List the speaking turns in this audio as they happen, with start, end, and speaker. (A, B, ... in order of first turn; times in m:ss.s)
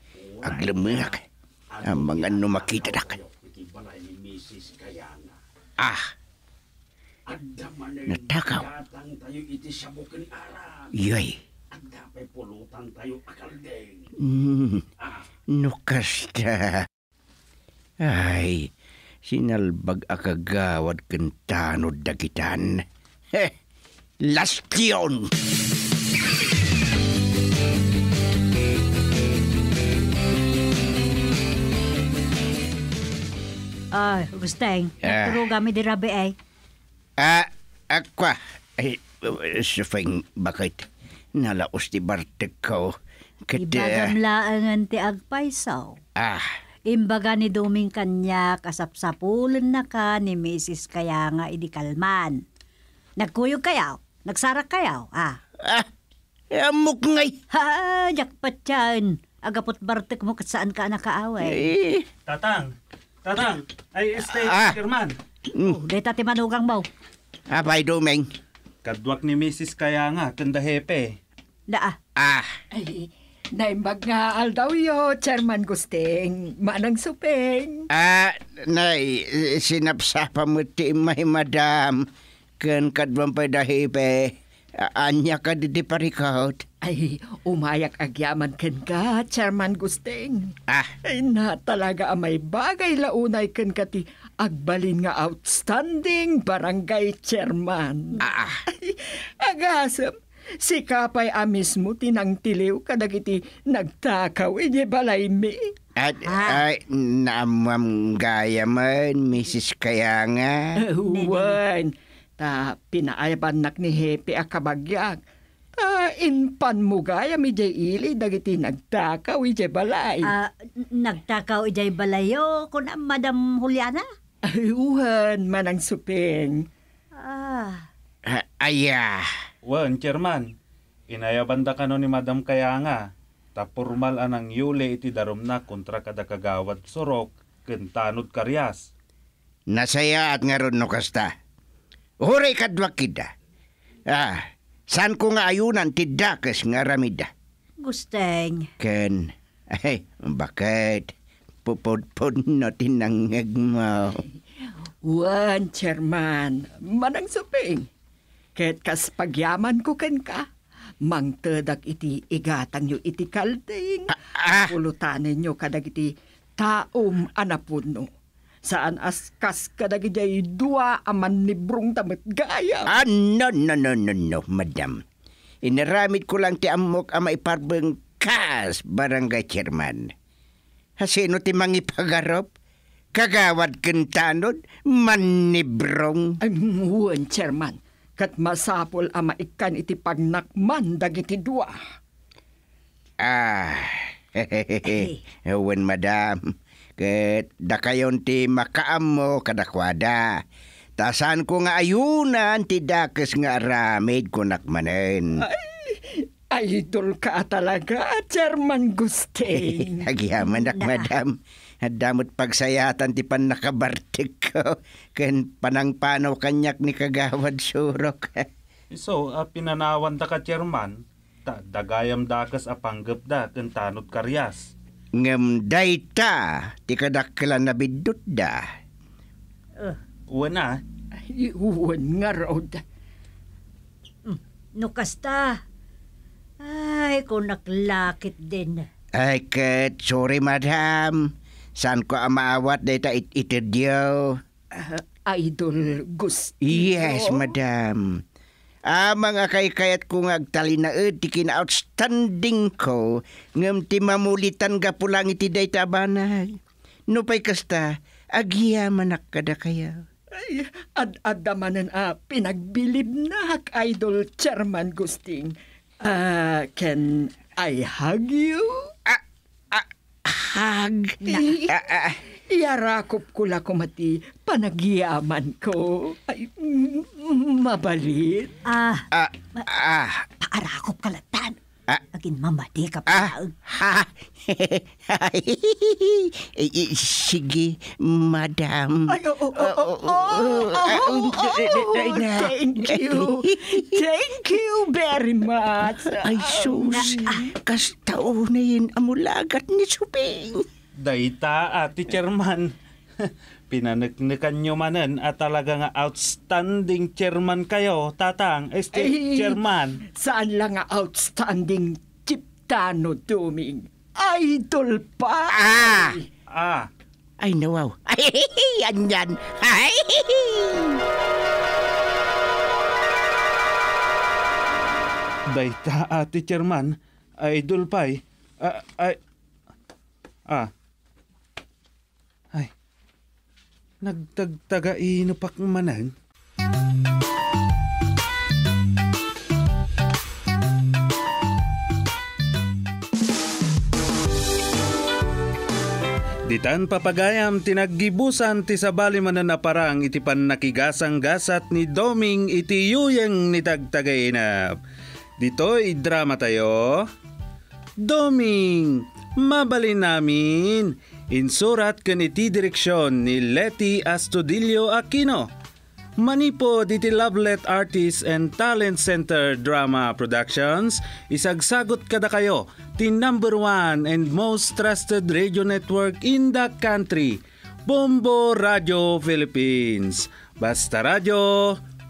0:00.2-0:01.2 A
0:00.4-0:01.2 B
0:01.7-0:05.4 A
0:01.8-0:03.2 B
0:05.8-0:06.1 B
0:07.3-0:10.9 A
0:08.1-0:08.7 B
0:11.0-0:11.4 B
0:11.7-0:14.1 A
0:14.2-0:14.9 B
0:15.5-0:16.9 B
0:18.0-0:18.7 B
0:19.2-0:23.5 B
0:24.2-0:25.3 B
0:33.9-0:36.4 C
0:35.0-0:35.5 B
0:37.2-0:43.0 B
0:43.5-0:44.2 B
0:43.6-0:46.0 C
0:46.2-0:46.6 B
0:46.9-0:52.4 C
0:53.2-0:55.4 C
0:55.6-0:55.9 B
0:56.5-0:57.4 B
0:57.5-1:01.7 C
1:01.4-1:02.1 B
1:02.3-1:02.7 D
1:03.2-1:05.1 D
1:04.3-1:04.8 B
1:05.6-1:06.9 C
1:07.5-1:08.3 B
1:08.8-1:11.2 D
1:11.7-1:12.0 C
1:12.2-1:12.6 B
1:12.7-1:17.9 E
1:17.9-1:22.1 B
1:22.6-1:26.7 B
1:26.8-1:30.5 E
1:30.7-1:31.0 B
1:31.0-1:45.6 E
1:38.2-1:38.6 B
1:46.0-1:50.8 B
1:46.2-1:46.6 C
1:50.8-1:55.2 E
1:51.1-1:51.6 C
1:55.8-2:00.3 E
2:00.2-2:04.1 C
2:04.5-2:06.7 E
2:07.2-2:07.9 C
2:08.3-2:09.3 B
2:09.6-2:10.5 D
2:11.1-2:13.0 D
2:13.6-2:18.9 D
2:19.7-2:21.3 B
2:22.2-2:23.3 B
2:24.1-2:27.3 B
2:27.8-2:28.7 C
2:28.8-2:31.1 B
2:31.6-2:34.2 B
2:34.7-2:37.9 E
2:38.6-2:40.5 E
2:41.1-2:48.1 E
2:44.2-2:44.8 B
2:48.6-2:52.9 E
2:52.9-2:55.0 B
2:55.6-3:00.1 B
3:01.0-3:02.5 B
3:03.2-3:06.4 B
3:06.4-3:11.8 E
3:13.2-3:20.4 B
3:14.9-3:15.2 C
3:21.0-3:25.4 B
3:25.4-3:30.1 E
3:29.5-3:38.5 B
3:30.5-3:31.1 C
3:38.9-3:44.7 D
3:45.2-3:48.7 B
3:50.3-3:50.8 D
3:51.2-3:52.8 E
3:54.3-3:55.6 C
3:56.6-3:58.9 C
3:59.2-4:04.4 B
4:04.7-4:07.5 E
4:06.6-4:08.2 B
4:08.9-4:16.6 B
4:17.1-4:20.0 B
4:20.3-4:28.9 E
4:29.1-4:32.2 B
4:31.2-4:31.8 E
4:32.5-4:38.6 E
4:38.7-4:39.7 C
4:39.1-4:40.3 B
4:40.4-4:41.6 C
4:42.1-4:43.5 C
4:43.1-4:54.0 B
4:49.1-4:57.5 E
4:56.1-5:00.7 B
5:01.0-5:10.0 D
5:08.9-5:09.6 E
5:10.2-5:16.3 E
5:15.5-5:16.2 B
5:16.5-5:16.9 D
5:17.4-5:21.0 B
5:25.5-5:29.2 D
5:34.0-5:36.1 D
5:46.5-5:54.8 D
5:55.4-5:57.1 D
5:58.0-6:05.5 D
6:06.2-6:21.8 D